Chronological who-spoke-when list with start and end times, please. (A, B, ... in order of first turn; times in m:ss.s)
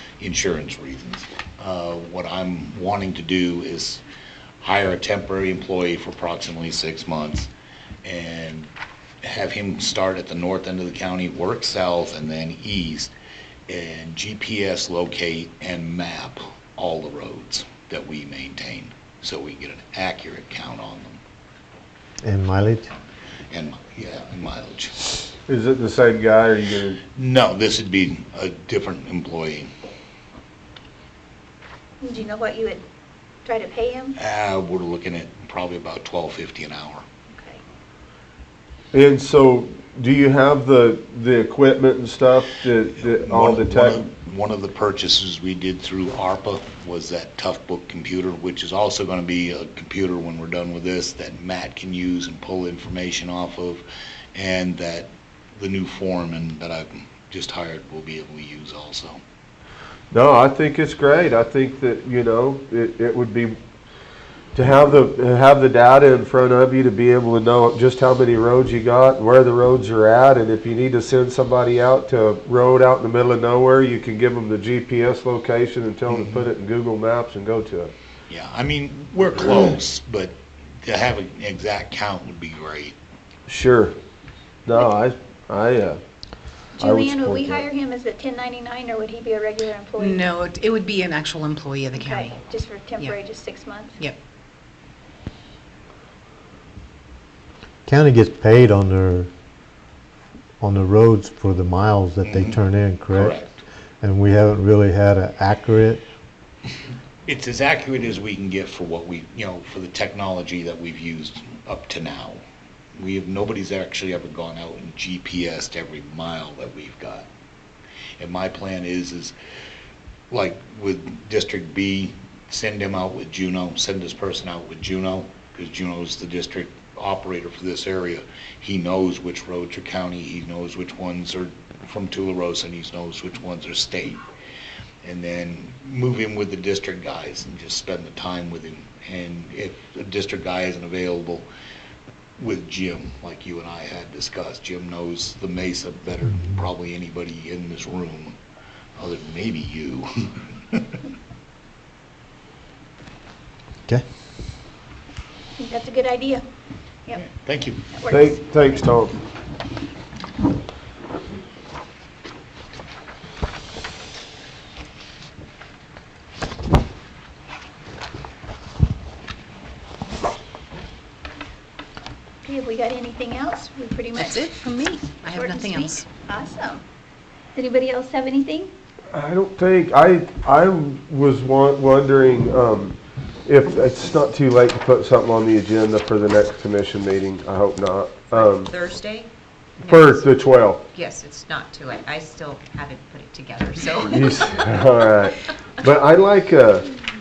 0:00.2-0:04.0 A
0:04.6-0:07.5 A
0:08.0-0:08.7 A
0:09.2-0:13.1 A
0:13.7-0:21.2 A
0:22.2-0:22.9 B
0:23.5-0:25.0 A
0:25.5-0:27.0 C
0:27.2-0:29.7 A
0:32.0-0:32.8 D
0:33.4-0:34.2 D
0:34.2-0:37.0 A
0:37.3-0:37.6 D
0:38.9-0:44.1 C
0:43.2-0:53.8 A
0:54.4-0:59.2 A
1:00.1-1:03.6 C
1:04.6-1:17.9 C
1:16.1-1:16.4 A
1:18.3-1:23.0 A
1:23.5-1:24.0 C
1:24.6-1:26.0 C
1:26.8-1:30.3 D
1:26.8-1:27.7 C
1:30.0-1:32.4 E
1:31.9-1:34.0 D
1:37.9-1:39.3 B
1:40.6-1:43.4 B
1:42.2-1:43.6 A
1:44.0-1:46.0 B
1:47.3-1:52.4 A
1:53.0-1:57.3 A
1:58.2-1:59.4 A
2:00.3-2:14.2 A
2:15.0-2:21.5 A
2:22.4-2:28.4 A
2:29.0-2:31.0 A
2:35.6-2:36.4 D
2:37.2-2:37.8 A
2:37.9-2:38.6 D
2:38.1-2:39.2 C
2:52.4-2:54.5 D
2:54.2-2:56.0 E
2:55.3-2:56.8 D
2:57.6-2:58.7 D
2:59.1-3:08.7 C
3:08.3-3:09.3 F
3:09.8-3:10.3 F
3:09.8-3:10.8 C
3:10.9-3:14.6 F
3:14.0-3:16.9 C